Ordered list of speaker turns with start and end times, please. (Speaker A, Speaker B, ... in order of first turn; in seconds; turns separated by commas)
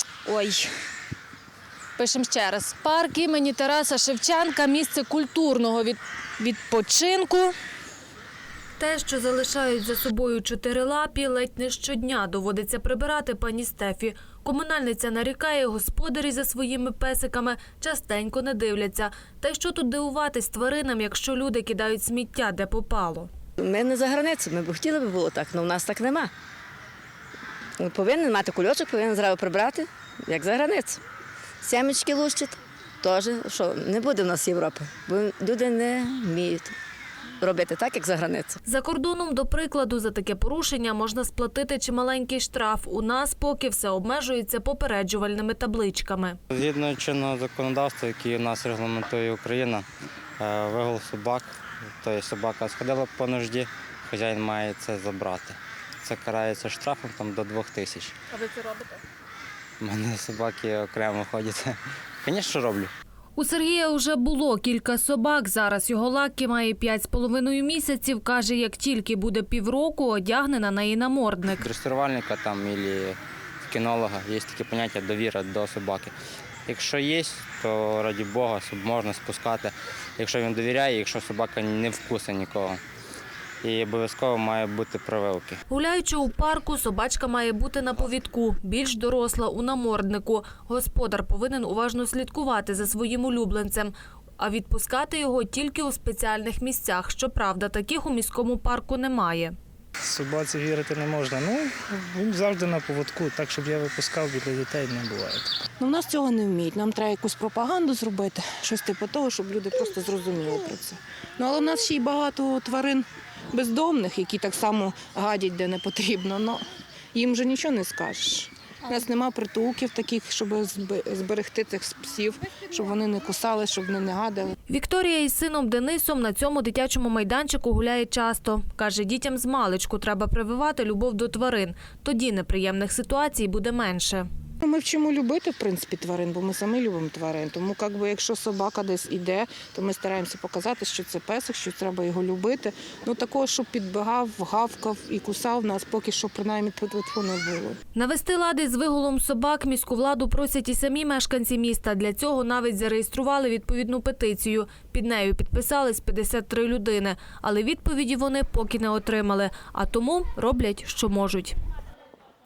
Speaker A: 0.2-0.7, Speaker A: 2.0-7.5, Speaker A: 8.8-23.3, Speaker B: 23.6-26.3, Speaker B: 27.8-31.0, Speaker B: 31.6-36.7, Speaker B: 37.4-38.6, Speaker A: 38.7-46.4, Speaker C: 46.5-49.9, Speaker C: 50.4-58.1, Speaker A: 58.4-59.0, Speaker C: 59.8-62.9, Speaker A: 63.4-71.7, Speaker C: 71.6-76.1, Speaker C: 76.7-82.8, Speaker C: 83.6-85.6, Speaker A: 85.7-99.5, Speaker D: 100.0-105.5, Speaker E: 105.8-116.6, Speaker E: 117.1-124.5, Speaker A: 124.7-134.3, Speaker E: 134.6-147.8, Speaker A: 147.9-161.6